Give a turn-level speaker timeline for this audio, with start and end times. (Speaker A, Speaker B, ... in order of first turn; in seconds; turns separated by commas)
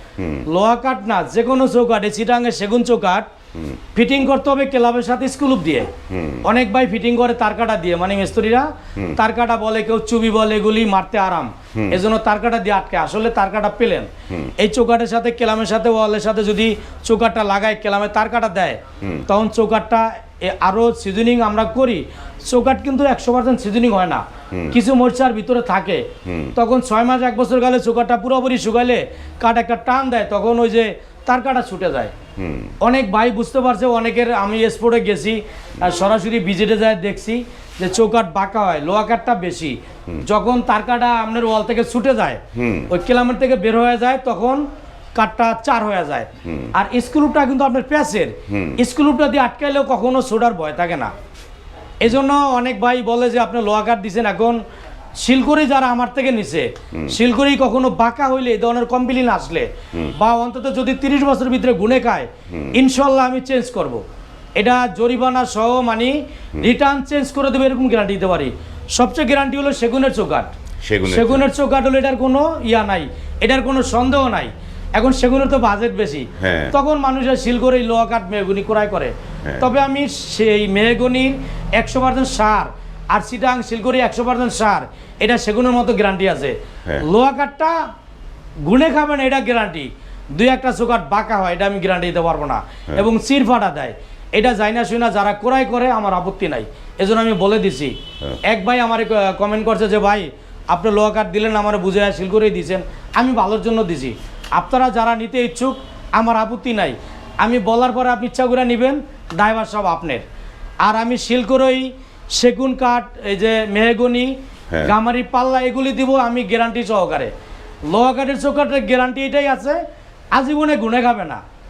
Speaker A: 0.2-0.5, Speaker B: 0.5-3.3, Speaker A: 3.5-3.8, Speaker B: 4.0-5.9, Speaker A: 6.1-6.4, Speaker B: 6.5-32.1, Speaker A: 11.8-12.0, Speaker A: 19.0-19.3, Speaker A: 24.5-24.8, Speaker A: 26.2-26.6, Speaker A: 32.4-32.7, Speaker B: 32.8-44.6, Speaker A: 42.5-42.9, Speaker B: 45.1-51.1, Speaker A: 46.5-46.7, Speaker A: 48.5-48.8, Speaker B: 52.0-54.6, Speaker B: 55.2-64.0, Speaker A: 62.5-62.8, Speaker B: 64.6-70.5, Speaker A: 70.8-71.5, Speaker B: 71.1-87.8, Speaker A: 76.4-76.7, Speaker B: 88.7-98.0, Speaker B: 98.5-110.2, Speaker B: 110.8-117.3, Speaker B: 117.9-119.8, Speaker B: 120.3-121.4